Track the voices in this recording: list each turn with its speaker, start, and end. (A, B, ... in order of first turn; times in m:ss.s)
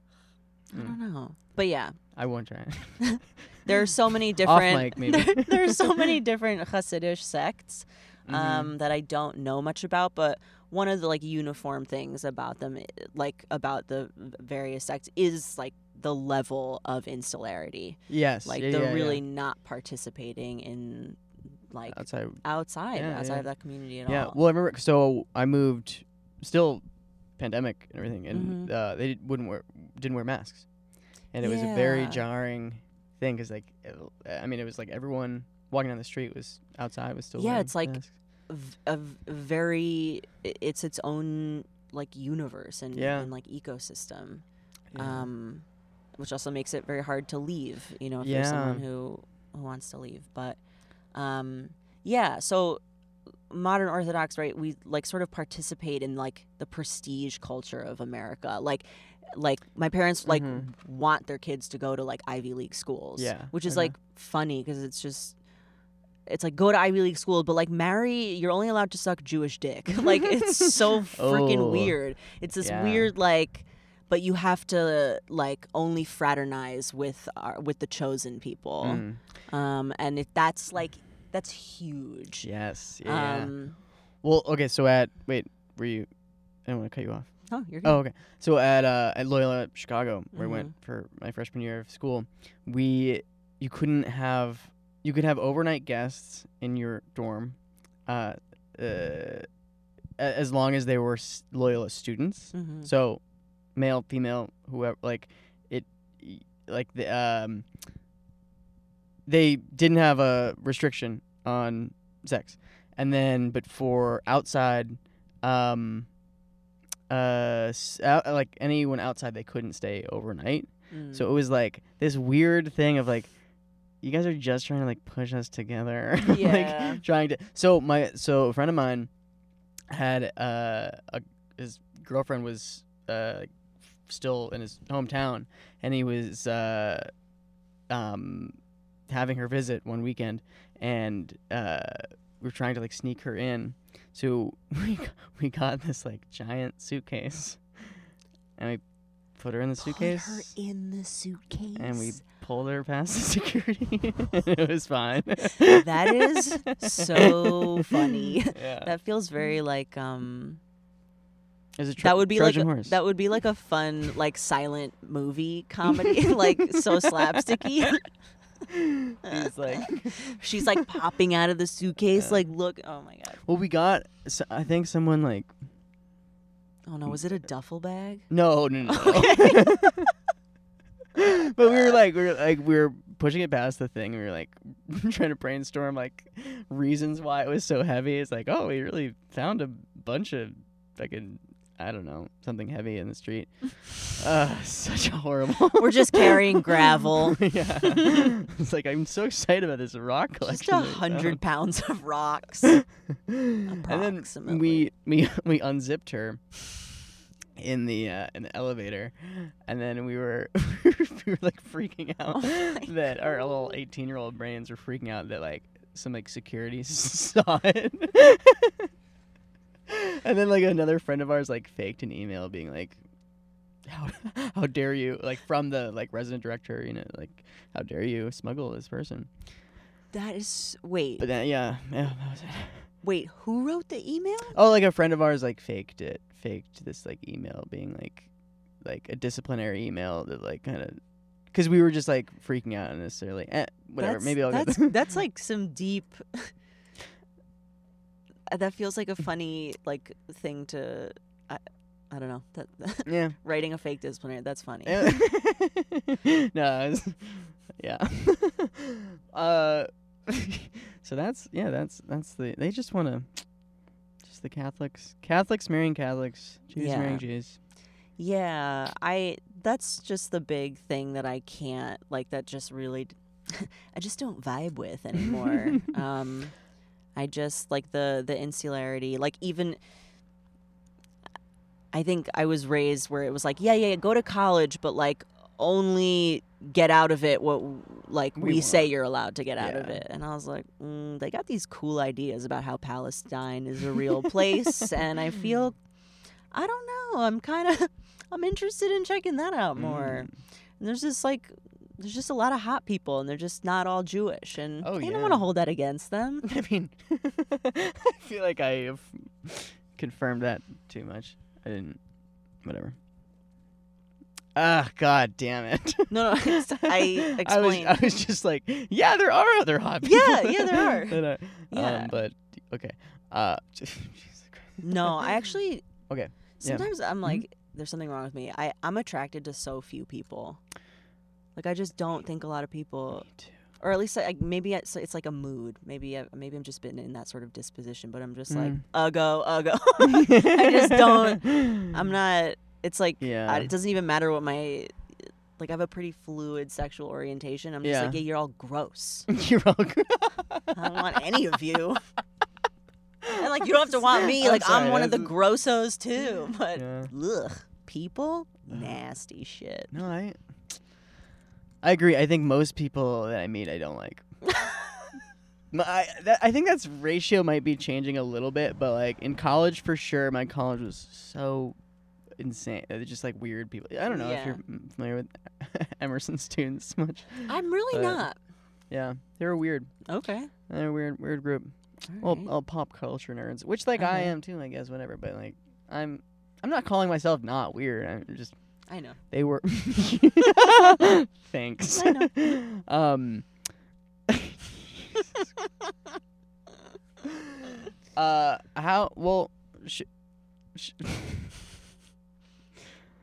0:00.7-0:01.0 A
0:00.7-0:02.0 B
0:02.2-0:03.1 A
0:03.0-0:24.4 B
0:04.4-0:06.2 A
0:08.3-0:08.7 A
0:18.1-0:19.2 A
0:21.9-0:22.4 A
0:22.9-0:23.5 A
0:24.1-0:26.8 A
0:27.4-0:30.7 A
0:28.3-0:28.7 B
0:31.3-0:38.1 A
0:31.4-0:32.2 B
0:37.4-0:44.4 B
0:42.9-0:43.3 A
0:44.9-0:45.3 A
0:45.0-0:45.6 B
0:46.2-0:50.6 B
0:48.2-0:48.8 A
0:51.1-0:52.8 B
0:53.5-1:05.4 B
1:00.3-1:00.7 A
1:03.2-1:04.0 A
1:06.3-1:22.5 B
1:10.0-1:12.0 A
1:12.6-1:13.1 A
1:18.8-1:19.2 A
1:22.4-1:23.5 A
1:23.0-1:23.8 B
1:24.2-1:26.1 A
1:26.6-1:27.3 A
1:27.5-1:28.0 B
1:27.8-1:39.5 A
1:30.3-1:30.7 B
1:40.2-1:43.2 A
1:42.5-1:42.9 B
1:43.8-1:47.7 A
1:49.3-1:56.1 A
1:57.1-2:03.3 A
2:00.9-2:01.3 B
2:04.0-2:09.1 A
2:06.2-2:07.0 B
2:09.9-2:13.5 A
2:14.1-2:17.1 A
2:17.9-2:18.6 A
2:19.1-2:27.9 A
2:29.4-2:30.5 A
2:29.8-2:32.2 B
2:31.8-2:38.9 A
2:35.6-2:40.6 B
2:41.8-2:43.0 A
2:42.0-2:48.1 B
2:45.9-2:47.9 A
2:48.7-2:50.9 A
2:49.2-2:53.4 B
2:52.1-2:52.4 A
2:53.4-2:55.5 A
2:56.9-2:58.3 B
2:58.3-3:00.1 A
2:58.9-3:00.1 B
3:01.2-3:21.4 A
3:01.6-3:01.9 B
3:15.7-3:18.3 B
3:20.4-3:22.8 B
3:22.7-3:26.4 A
3:23.6-3:24.9 B
3:27.6-3:38.9 A
3:32.3-3:33.5 B
3:39.9-3:43.0 A
3:43.8-3:49.3 A
3:50.1-3:51.3 B
3:51.2-3:52.9 A
3:53.0-3:54.6 B
3:54.5-3:58.3 A
3:58.8-4:01.0 A
4:01.5-4:05.0 A
4:04.0-4:06.5 B
4:08.5-4:15.2 B
4:13.1-4:13.4 A
4:14.9-4:23.4 A
4:24.2-4:27.6 A
4:26.8-4:27.2 B
4:28.2-4:36.6 B
4:35.2-4:36.0 A
4:37.2-4:39.8 B
4:41.9-4:55.8 B
4:48.4-4:48.9 A
4:49.6-4:50.0 A
4:54.0-4:54.9 A
4:56.5-5:00.3 B
4:59.8-5:00.3 A
5:00.8-5:06.5 B
5:04.8-5:05.5 A
5:06.4-5:12.0 A
5:12.6-5:13.0 A
5:14.6-5:25.3 A
5:16.1-5:18.1 B
5:20.0-5:22.2 B
5:24.8-5:25.8 B
5:26.1-5:27.4 A
5:26.6-5:30.6 B
5:31.6-5:33.3 B
5:33.2-5:33.6 A
5:33.8-5:49.3 B
5:38.5-5:38.8 A
5:40.0-5:42.0 A
5:43.2-5:43.7 A
5:47.8-5:48.2 A
5:49.3-5:51.2 A
5:50.7-5:52.0 B
5:53.3-6:00.0 B
5:54.1-5:55.3 A
5:56.8-5:57.1 A
5:59.9-6:00.8 A
6:01.8-6:04.3 A
6:04.4-6:05.2 B
6:05.7-6:11.8 A
6:12.4-6:18.2 A
6:14.1-6:14.6 B
6:17.5-6:18.4 B
6:18.9-6:19.9 A
6:20.1-6:20.5 B
6:20.7-6:28.5 A
6:22.1-6:22.5 B
6:24.0-6:24.3 B
6:28.9-6:29.2 B
6:29.3-6:33.5 A
6:31.9-6:32.4 B
6:34.3-6:35.5 A
6:37.2-6:40.1 A
6:40.7-6:41.7 A